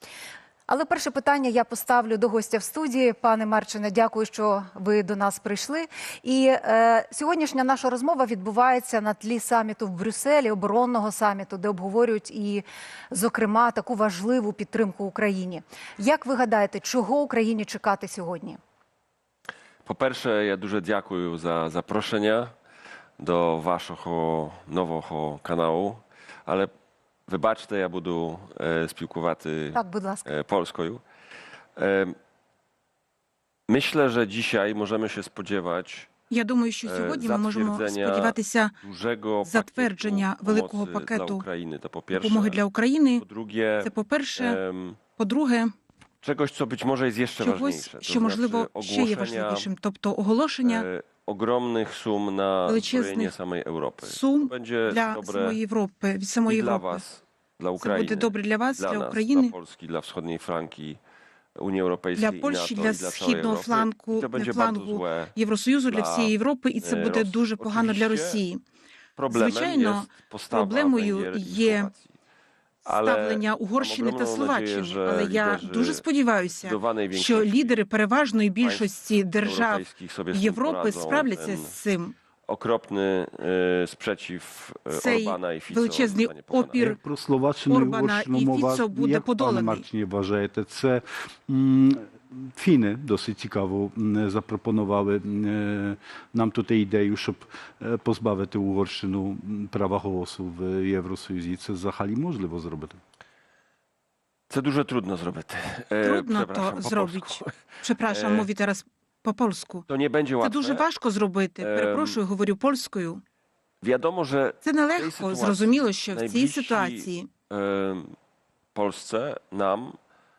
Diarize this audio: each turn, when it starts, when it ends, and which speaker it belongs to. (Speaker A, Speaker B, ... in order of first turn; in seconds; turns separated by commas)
Speaker A: 0.7-18.6, Speaker B: 19.9-22.5, Speaker B: 23.2-26.7, Speaker B: 27.3-31.0, Speaker A: 29.8-30.3, Speaker B: 31.8-32.2, Speaker B: 33.7-36.1, Speaker C: 36.3-38.7, Speaker B: 36.9-42.6, Speaker C: 39.4-41.5, Speaker C: 42.1-43.2, Speaker B: 43.2-45.0, Speaker C: 43.8-44.6, Speaker C: 45.2-45.7, Speaker B: 46.2-49.7, Speaker C: 47.4-50.9, Speaker B: 50.6-55.6, Speaker C: 52.7-53.3, Speaker C: 54.0-57.0, Speaker B: 56.5-61.0, Speaker C: 57.8-59.5, Speaker B: 61.6-65.3, Speaker C: 62.2-68.6, Speaker B: 65.9-68.4, Speaker B: 69.2-72.1, Speaker C: 69.3-71.9, Speaker B: 72.8-76.0, Speaker C: 72.9-82.1, Speaker B: 76.6-77.8, Speaker B: 78.6-81.8, Speaker B: 82.5-86.8, Speaker C: 84.9-87.0, Speaker D: 86.8-103.0, Speaker C: 87.7-89.8, Speaker B: 104.5-108.5, Speaker C: 106.0-109.9, Speaker B: 109.9-110.8, Speaker C: 110.4-113.2, Speaker B: 111.6-112.2, Speaker B: 113.8-118.2, Speaker C: 114.6-117.3, Speaker B: 118.7-120.0